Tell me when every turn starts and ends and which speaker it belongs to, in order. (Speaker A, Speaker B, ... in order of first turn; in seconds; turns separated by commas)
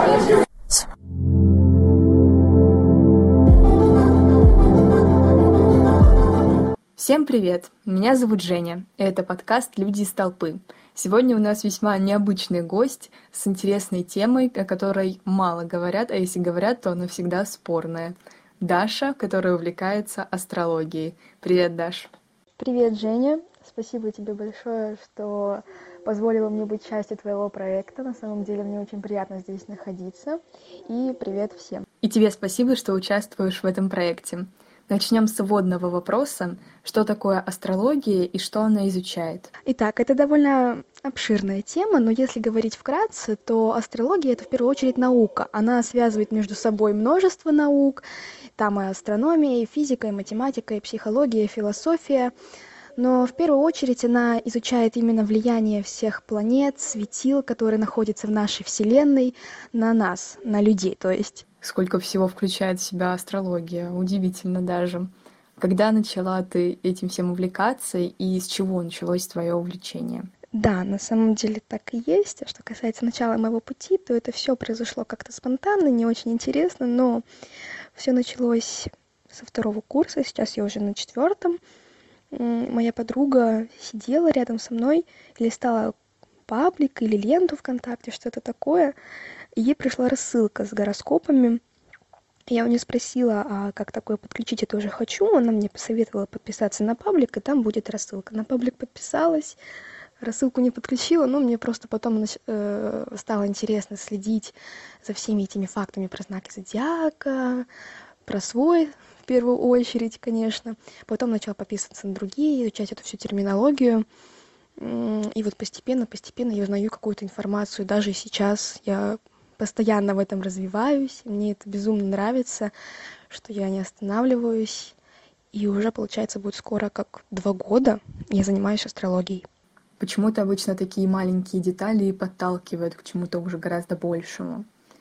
Speaker A: 7.0-22.1, Speaker B: 22.6-31.8, Speaker A: 32.0-39.5, Speaker B: 39.6-48.0, Speaker B: 48.6-52.3, Speaker B: 53.0-61.5, Speaker A: 61.6-70.3, Speaker B: 70.5-77.2, Speaker B: 78.0-81.6, Speaker B: 82.3-85.9, Speaker B: 86.5-89.0, Speaker B: 89.6-91.6, Speaker B: 92.5-99.6, Speaker B: 100.2-107.7, Speaker B: 108.3-114.0, Speaker B: 114.8-122.7, Speaker B: 123.3-125.0, Speaker B: 125.5-129.5, Speaker A: 130.0-134.7